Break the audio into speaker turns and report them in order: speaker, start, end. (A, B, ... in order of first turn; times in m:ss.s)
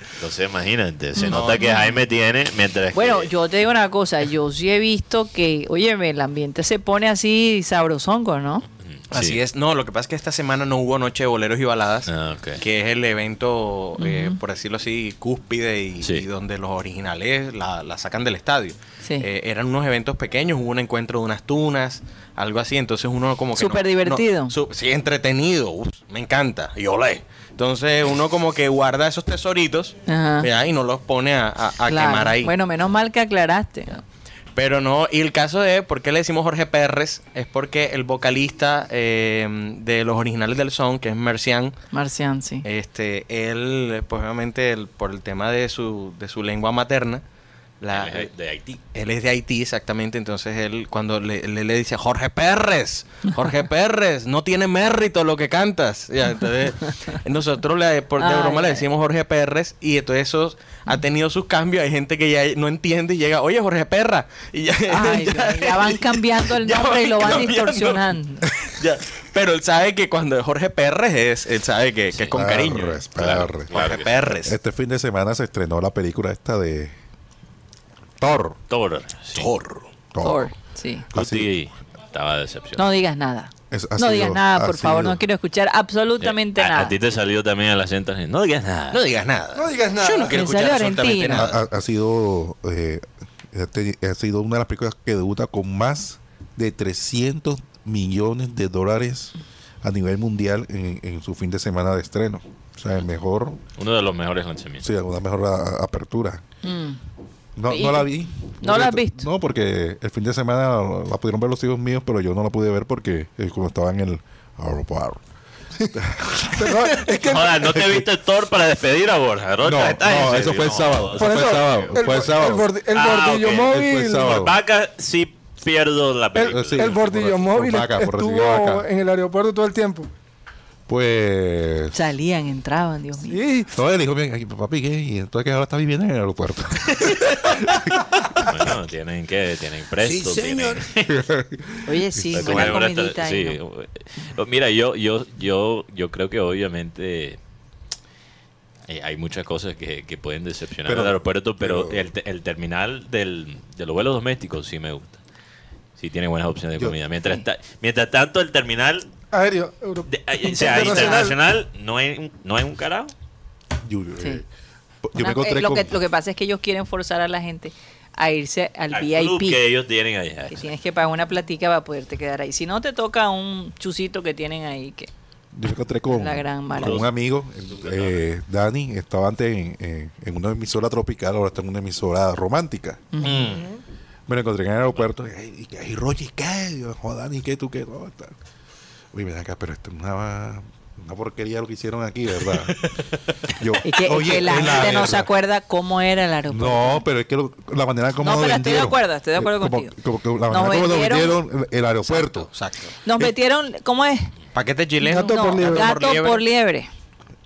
0:00.2-0:03.3 A
0:01.2-0:02.0 B
0:01.3-0:01.6 C
0:02.9-0:08.6 B
0:08.8-0:09.4 A
0:09.1-0:32.5 C
0:12.1-0:12.6 A
0:14.0-0:14.4 B
0:16.0-0:16.3 A
0:23.6-0:24.5 B
0:30.1-0:30.5 B
0:31.9-0:34.0 B
0:34.6-0:41.8 C
0:41.9-0:42.7 B
0:42.6-0:47.2 C
0:47.8-0:48.3 C
0:47.9-0:48.8 A
0:48.9-1:13.0 C
0:58.2-0:58.8 B
1:04.9-1:08.5 B
1:12.3-1:13.8 D
1:13.1-1:14.1 A
1:13.7-1:14.6 C
1:14.4-1:16.9 D
1:18.2-1:18.6 D
1:18.7-1:19.5 A
1:19.3-1:19.9 C
1:20.1-1:20.5 D
1:20.2-1:21.1 B
1:21.1-1:21.5 D
1:21.1-1:22.9 A
1:22.8-1:27.0 B
1:23.7-1:25.2 D
1:26.2-1:29.0 A
1:28.9-1:31.6 C
1:29.6-1:30.4 E
1:30.3-1:31.4 B
1:31.3-1:43.6 D
1:43.8-1:44.9 A
1:44.8-1:46.4 D
1:46.6-1:47.0 B
1:47.6-1:55.2 D
1:47.7-1:49.3 B
1:55.9-1:58.1 D
1:56.5-1:57.8 E
1:57.2-2:02.2 A
1:59.6-2:02.7 D
2:01.2-2:04.4 E
2:02.9-2:07.1 A
2:03.6-2:04.6 D
2:06.4-2:10.1 E
2:06.4-2:08.9 D
2:10.9-2:12.0 D
2:11.9-2:13.4 B
2:13.3-2:13.7 E
2:13.7-2:18.7 D
2:18.4-2:21.2 A
2:21.0-2:22.8 D
2:21.9-2:23.6 B
2:22.3-2:27.4 A
2:28.9-2:35.2 A
2:30.9-2:32.1 D
2:36.0-2:39.1 A
2:39.3-2:41.4 E
2:40.1-2:43.1 A
2:43.8-2:44.5 D
2:45.0-2:45.9 D
2:45.2-2:49.6 B
2:48.9-2:50.7 A
2:50.5-2:55.1 B
2:55.5-3:03.1 D
2:56.1-2:57.0 B
2:56.8-2:57.1 A
2:57.7-2:58.2 A
3:03.1-3:03.4 B
3:03.2-3:03.7 C
3:04.3-3:08.4 D
3:09.1-3:12.9 D
3:12.7-3:13.0 C
3:13.5-3:15.3 D
3:13.8-3:17.0 B
3:16.5-3:22.5 D
3:18.2-3:19.9 B
3:20.5-3:21.4 B
3:22.1-3:23.0 C
3:23.0-3:24.3 B
3:24.5-3:26.4 C
3:25.0-3:26.0 E
3:25.0-3:26.9 B